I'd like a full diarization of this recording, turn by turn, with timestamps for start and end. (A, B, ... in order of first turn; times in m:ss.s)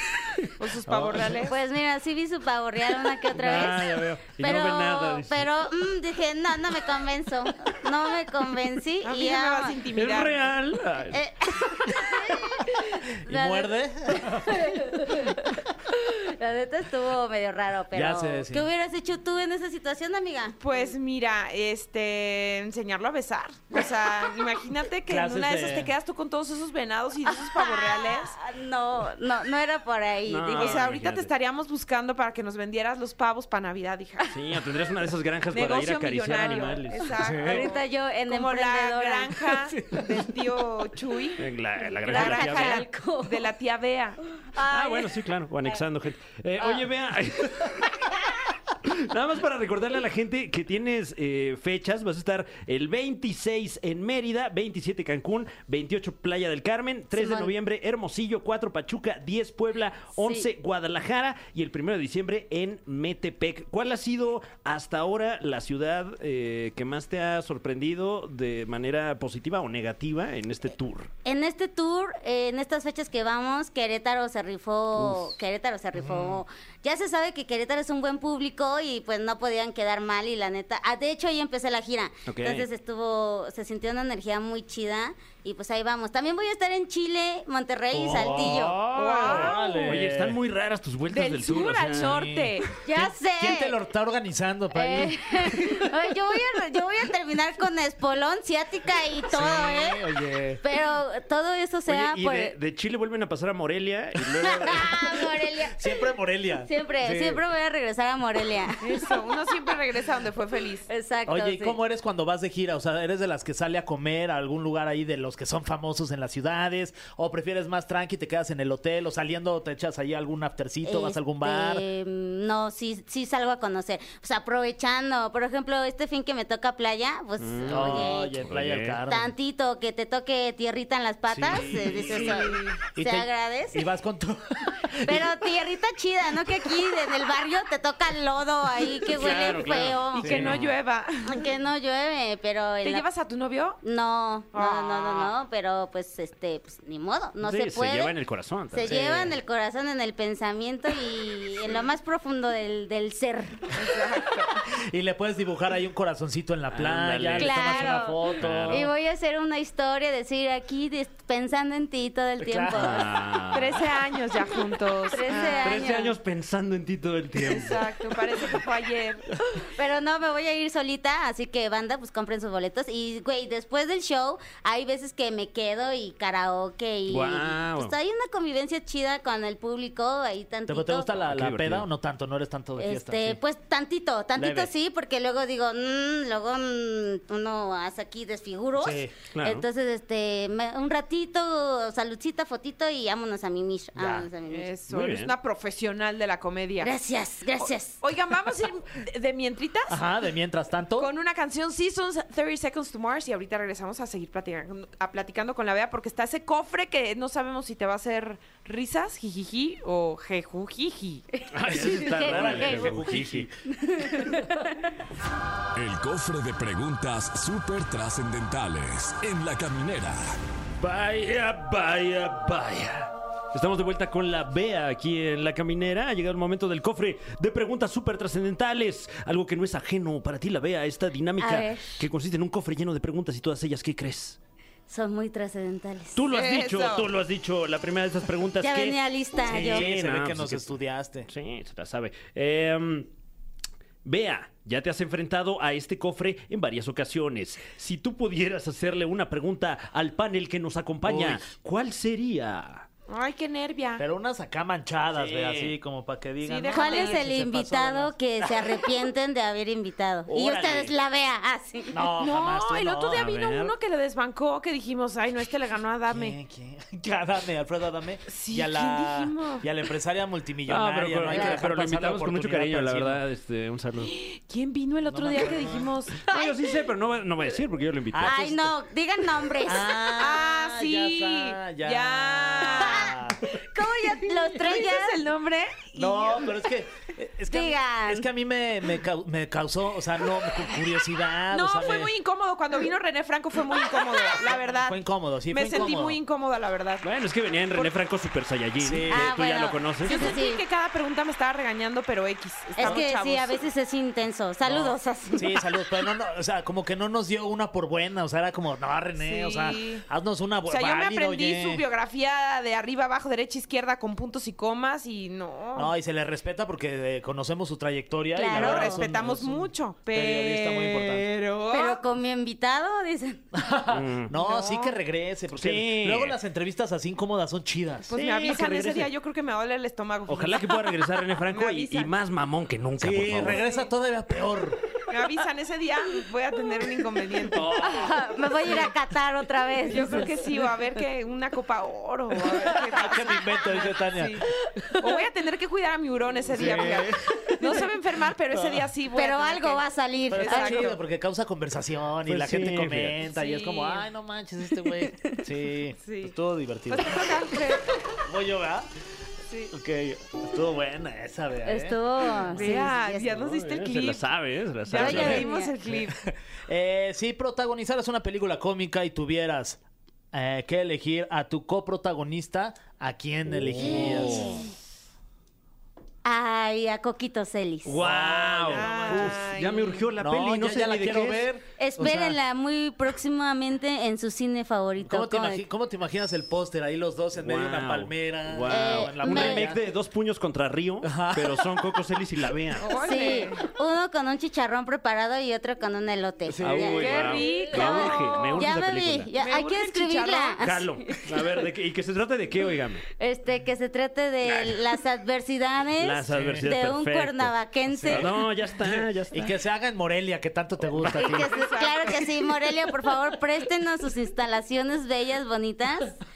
0:00.6-0:01.6 A
0:00.9-0:01.3 B
0:01.2-0:09.8 C
0:03.3-0:05.5 D
0:09.0-0:10.5 A
0:09.9-0:11.8 D
0:11.1-0:20.9 C
0:13.2-0:14.6 B
0:17.9-0:18.7 B
0:20.6-0:28.4 A
0:25.1-0:25.9 B
0:27.2-0:30.9 C
0:30.3-0:31.3 D
0:30.5-0:34.3 A
0:34.3-0:37.5 D
0:35.5-0:41.4 A
0:37.1-0:37.7 B
0:37.3-0:39.6 C
0:39.8-0:40.3 B
0:41.4-0:42.8 D
0:42.1-0:43.5 C
0:42.1-0:44.2 A
0:44.4-0:45.1 C
0:44.6-1:11.1 D
0:57.1-0:57.5 C
1:00.2-1:00.5 C
1:11.2-1:28.8 C
1:16.0-1:16.4 B
1:22.3-1:22.7 D
1:27.9-1:30.4 B
1:28.1-1:32.3 D
1:28.9-1:29.6 A
1:29.4-1:29.8 C
1:31.1-1:32.8 A
1:31.9-1:35.9 B
1:32.8-1:33.8 C
1:34.7-1:40.0 C
1:39.3-1:40.6 B
1:40.6-1:42.6 C
1:41.9-1:45.1 D
1:44.4-1:46.0 C
1:44.7-1:45.1 B
1:45.6-1:47.4 B
1:46.6-1:49.1 C
1:48.8-1:50.9 A
1:50.9-1:51.8 C
1:51.3-2:01.8 B
2:00.8-2:08.5 C
2:07.4-2:09.0 D
2:07.7-2:09.3 B
2:09.1-2:13.8 C
2:11.3-2:15.5 B
2:12.1-2:12.8 A
2:15.0-2:20.4 C
2:19.1-2:20.7 D
2:20.1-2:21.5 A
2:20.2-2:20.6 B
2:21.2-2:23.0 C
2:22.8-2:23.8 A
2:23.8-2:28.1 C
2:24.5-2:25.3 A
2:27.4-2:29.4 D
2:28.7-2:33.7 C
2:28.8-2:29.2 B
2:33.7-2:34.6 A
2:34.7-2:38.9 B
2:36.7-2:38.9 D
2:37.4-2:43.0 C
2:42.4-2:43.1 B
2:42.7-2:44.0 D
2:43.5-2:45.8 A
2:45.1-2:46.2 C
2:45.6-2:47.9 D
2:47.4-2:49.4 A
2:49.6-3:01.1 C
2:57.1-2:57.9 D
3:00.7-3:03.4 B
3:01.2-3:01.9 D
3:02.8-3:14.7 C
3:04.4-3:04.7 B
3:08.8-3:09.1 B
3:09.3-3:09.6 D
3:14.0-3:14.3 B
3:14.5-3:16.9 A
3:14.9-3:15.3 D
3:16.8-3:18.0 C
3:17.6-3:20.0 A
3:19.9-3:21.1 B
3:21.0-3:31.2 A
3:31.4-3:33.0 C
3:31.5-3:33.5 D
3:31.7-3:33.5 B
3:33.7-3:34.8 C
3:35.7-3:40.4 E
3:40.8-3:54.4 D
3:51.4-3:52.0 C
3:54.9-3:56.2 C
3:56.2-4:00.8 D
3:56.3-3:57.1 A
3:58.6-3:59.9 C
3:59.5-4:01.3 B
4:01.3-4:03.1 D
4:04.0-4:12.8 D
4:11.0-4:11.4 B
4:13.1-4:14.0 A
4:14.0-4:19.0 B
4:15.1-4:15.8 D
4:16.4-4:17.2 A
4:16.7-4:22.0 C
4:20.3-4:20.8 B
4:20.3-4:20.9 D
4:21.9-4:23.3 B
4:22.2-4:26.4 A
4:23.1-4:23.7 D
4:26.1-4:33.2 B
4:28.3-4:29.6 A
4:30.7-4:34.1 D
4:31.3-4:31.6 C
4:34.0-4:36.5 A
4:35.1-4:36.0 B
4:36.2-4:38.5 D
4:38.1-4:38.7 B
4:38.2-4:40.3 C
4:39.6-4:43.5 B
4:40.1-4:43.2 A
4:42.6-4:45.2 C
4:43.8-4:46.6 A
4:46.0-4:52.1 B
4:47.5-4:48.3 C
4:51.5-4:55.0 A
4:54.4-4:56.2 B
4:55.5-4:57.0 A
4:57.0-5:00.2 D
4:58.8-4:59.3 B
4:59.1-5:00.6 C
5:00.0-5:03.6 A
5:02.8-5:05.6 C
5:04.6-5:11.8 B
5:09.2-5:10.0 A
5:10.7-5:15.9 A
5:15.7-5:21.3 B
5:18.3-5:19.0 C
5:18.5-5:22.0 A
5:21.7-5:23.4 C
5:23.5-5:28.9 B
5:23.9-5:24.3 D
5:24.4-5:24.9 A
5:25.5-5:26.4 D
5:28.1-5:32.1 A
5:28.3-5:29.0 D
5:30.3-5:33.6 D
5:33.0-5:34.8 B
5:33.5-5:33.9 A
5:35.1-5:37.9 A
5:37.5-5:38.1 D
5:37.8-5:40.3 C
5:39.8-5:51.0 A
5:42.5-5:44.5 B
5:46.5-5:47.8 B
5:46.6-5:47.1 D
5:48.5-5:48.9 B
5:49.1-5:50.8 C
5:50.3-5:58.9 B
5:52.2-5:53.2 D
5:53.3-5:54.0 A
5:55.1-5:55.4 C
5:56.0-5:56.3 A
5:56.9-5:58.0 A
5:59.5-5:59.7 A
5:59.7-6:02.7 B
6:01.6-6:03.3 C
6:02.5-6:04.3 A
6:03.2-6:05.5 D
6:04.8-6:06.2 A
6:05.0-6:05.8 C
6:05.0-6:09.8 B
6:10.3-6:14.6 B
6:13.5-6:14.7 D
6:13.8-6:14.7 C
6:16.2-6:18.0 C
6:17.8-6:21.5 D
6:18.0-6:19.4 B
6:18.7-6:20.0 A
6:20.2-6:22.4 B
6:21.8-6:25.6 C
6:25.0-6:29.8 B
6:27.4-6:32.9 D
6:28.7-6:29.7 C
6:31.0-6:31.8 B
6:32.8-6:33.7 A
6:32.9-6:41.2 C
6:36.4-6:37.4 B
6:36.6-6:39.3 D
6:37.0-6:38.6 A
6:39.4-6:40.6 A
6:40.6-6:43.0 D
6:43.2-6:48.3 C
6:44.4-6:44.8 D
6:46.0-6:47.5 D
6:46.3-6:46.7 B
6:47.9-6:51.5 B
6:48.1-6:49.5 D
6:50.9-6:51.2 D
6:51.0-6:56.2 C
6:51.2-6:52.3 A